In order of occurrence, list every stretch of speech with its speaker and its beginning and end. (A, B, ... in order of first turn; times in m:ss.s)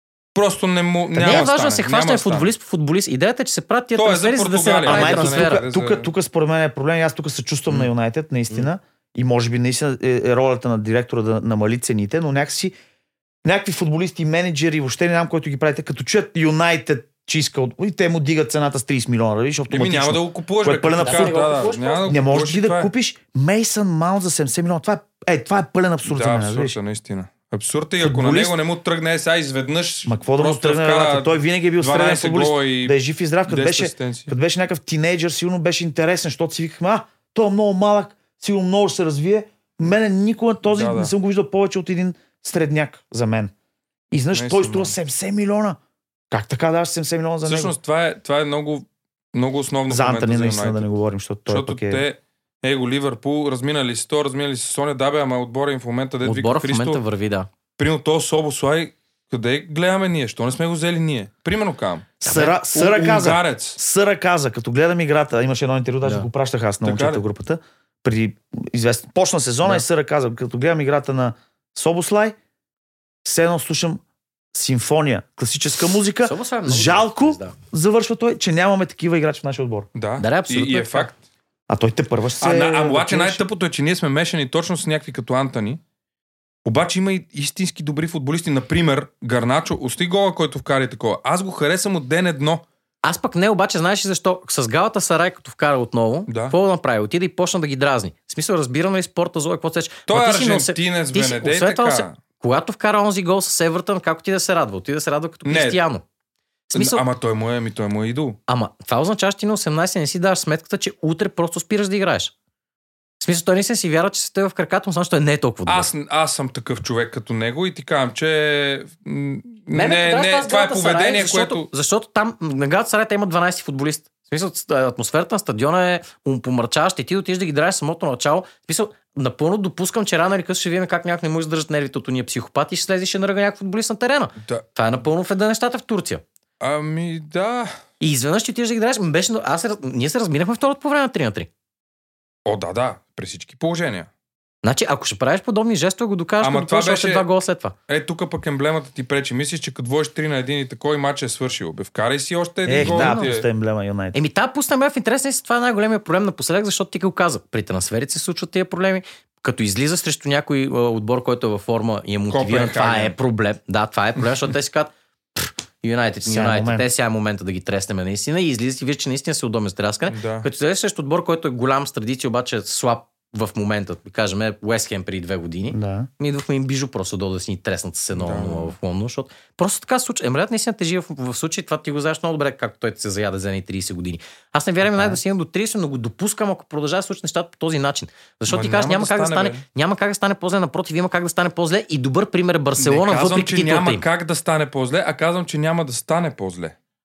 0:00.4-0:02.5 A
0:01.1-0:01.5 B
0:01.2-0:05.6 C
0:04.0-0:06.1 A
0:04.9-0:12.7 B
0:13.4-0:21.4 B
0:19.7-0:22.9 A
0:21.0-0:22.2 C
0:22.0-0:26.8 B
0:26.1-0:34.3 A
0:28.0-0:28.6 B
0:30.1-0:43.5 B
0:40.6-0:41.1 A
0:44.1-0:45.8 B
0:44.3-0:45.0 A
0:46.3-0:47.7 B
0:47.4-0:50.9 A
0:49.9-0:52.0 B
0:51.5-0:57.0 A
0:56.2-0:57.5 C
0:57.8-1:02.2 A
1:02.2-1:12.4 B
1:02.2-1:02.6 C
1:02.7-1:03.8 A
1:06.8-1:07.2 A
1:13.2-1:14.0 B
1:14.5-1:19.9 B
1:16.2-1:17.6 C
1:20.0-1:21.2 A
1:20.2-1:21.1 C
1:21.7-1:23.4 B
1:22.4-1:25.8 A
1:26.6-1:32.6 A
1:33.0-1:46.0 C
1:36.3-1:36.6 A
1:40.1-1:42.2 A
1:45.4-1:45.8 A
1:46.7-1:47.0 C
1:46.7-1:48.4 A
1:48.5-1:52.3 C
1:53.2-1:55.9 C
1:55.7-2:01.7 A
1:59.7-2:16.2 C
2:16.6-2:17.8 A
2:18.0-2:21.5 C
2:22.5-2:24.1 A
2:24.6-2:27.8 C
2:26.4-2:27.3 A
2:27.9-2:33.4 A
2:32.7-2:34.2 B
2:32.7-2:33.3 C
2:34.1-3:14.0 C
2:42.3-2:43.2 A
2:46.2-2:46.9 B
2:50.1-2:50.5 A
2:55.7-2:56.1 B
2:58.1-2:58.7 A
3:04.9-3:05.2 B
3:08.5-3:09.6 A
3:12.8-3:16.8 A